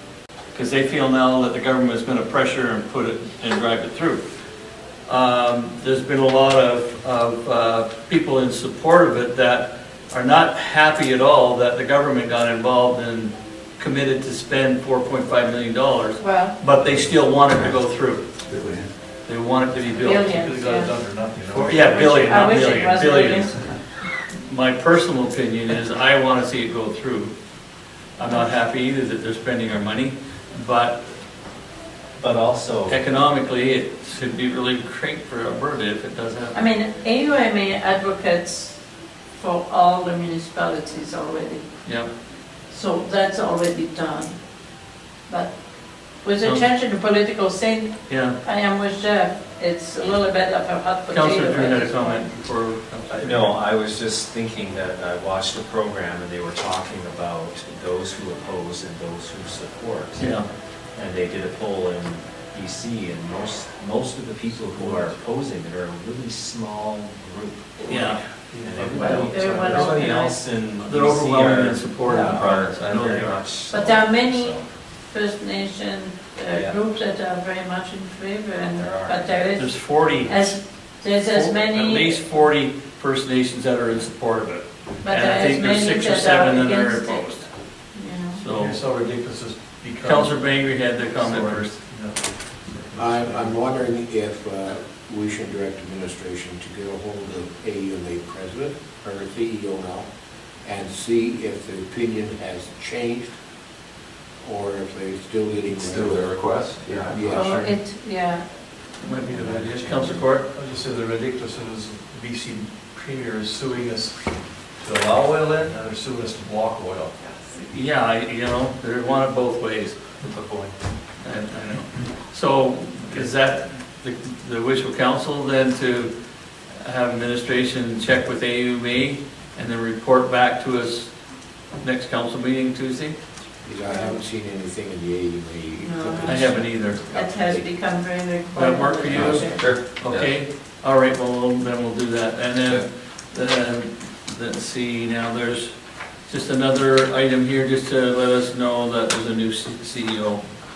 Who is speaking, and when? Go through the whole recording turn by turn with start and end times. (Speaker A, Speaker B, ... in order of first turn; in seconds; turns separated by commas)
Speaker A: 0.5-4.2, Speaker A: 5.1-18.2, Speaker B: 16.2-16.6, Speaker C: 18.4-18.9, Speaker A: 19.2-20.3, Speaker B: 20.0-21.0, Speaker D: 20.2-23.1, Speaker A: 21.5-23.6, Speaker B: 22.1-23.6, Speaker A: 24.3-27.4, Speaker A: 28.2-31.1, Speaker B: 28.2-28.6, Speaker E: 32.1-33.0, Speaker A: 32.9-36.6, Speaker B: 36.5-38.8, Speaker B: 39.3-41.7, Speaker A: 41.8-42.1, Speaker B: 42.7-44.4, Speaker B: 45.3-52.3, Speaker A: 46.4-46.7, Speaker A: 48.1-48.4, Speaker A: 51.1-53.5, Speaker E: 53.1-60.4, Speaker A: 60.1-60.5, Speaker E: 60.9-74.7, Speaker D: 64.5-65.2, Speaker A: 67.8-68.2, Speaker D: 68.5-69.9, Speaker B: 69.1-70.4, Speaker A: 70.8-73.5, Speaker B: 73.7-82.2, Speaker E: 76.5-76.8, Speaker E: 78.6-79.5, Speaker A: 79.5-80.6, Speaker A: 81.1-87.4, Speaker B: 85.0-88.4, Speaker A: 88.3-88.8, Speaker D: 88.5-93.6, Speaker A: 90.0-91.8, Speaker F: 93.0-100.1, Speaker F: 100.6-103.4, Speaker F: 104.4-106.3, Speaker C: 105.8-107.7, Speaker F: 107.0-107.7, Speaker B: 107.2-108.5, Speaker A: 109.0-110.5, Speaker D: 109.4-117.1, Speaker E: 109.4-110.2, Speaker A: 117.5-120.0, Speaker D: 120.2-120.8, Speaker A: 121.2-126.1, Speaker A: 126.7-131.1, Speaker A: 131.7-133.2, Speaker F: 133.6-137.7, Speaker B: 133.8-134.2, Speaker B: 135.8-139.7, Speaker A: 136.2-137.0, Speaker A: 138.5-150.5, Speaker C: 139.6-140.4